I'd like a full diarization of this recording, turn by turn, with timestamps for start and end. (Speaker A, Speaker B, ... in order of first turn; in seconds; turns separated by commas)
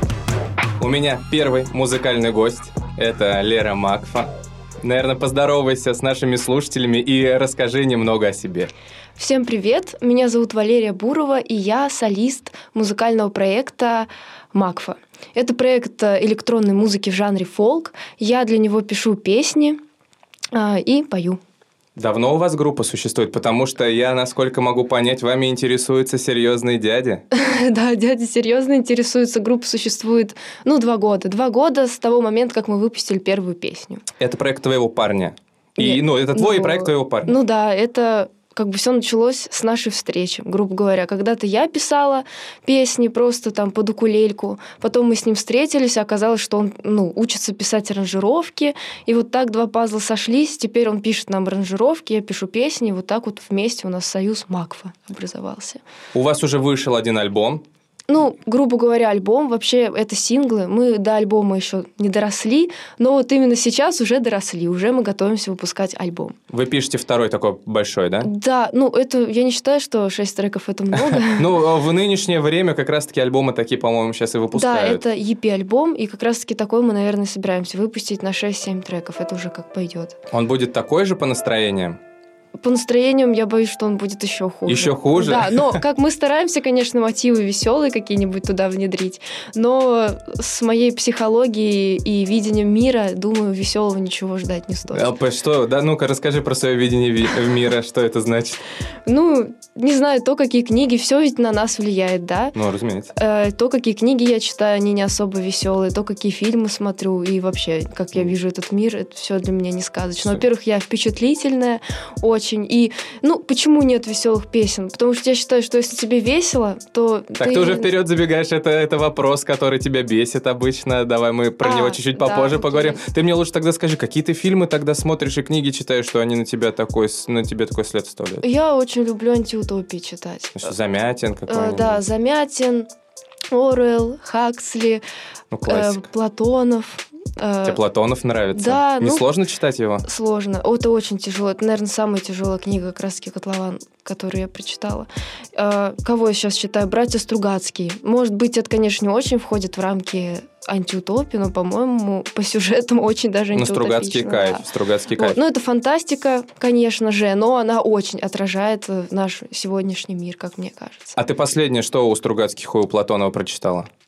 Speaker A: 0.8-4.3, Speaker A: 4.8-8.7, Speaker B: 9.2-19.8, Speaker B: 20.5-21.4, Speaker A: 21.9-27.2, Speaker B: 27.3-34.0, Speaker A: 34.2-37.4, Speaker B: 35.8-55.8, Speaker A: 56.1-57.6, Speaker B: 58.1-66.3, Speaker A: 66.5-68.3, Speaker B: 68.2-71.5, Speaker A: 70.9-75.0, Speaker B: 74.5-80.2, Speaker A: 80.3-82.0, Speaker B: 82.6-95.1, Speaker A: 84.7-85.8, Speaker A: 94.9-98.6, Speaker B: 99.1-102.5, Speaker A: 102.5-103.1, Speaker B: 103.1-117.9, Speaker A: 117.4-128.4, Speaker B: 121.6-123.0, Speaker B: 128.4-130.7, Speaker A: 130.6-132.0, Speaker B: 131.5-132.9, Speaker B: 133.5-135.0, Speaker A: 135.5-136.0, Speaker B: 135.7-137.8, Speaker A: 137.6-140.0, Speaker B: 138.5-139.3, Speaker B: 140.0-154.6, Speaker A: 153.5-155.4, Speaker B: 155.2-161.1, Speaker A: 161.2-163.9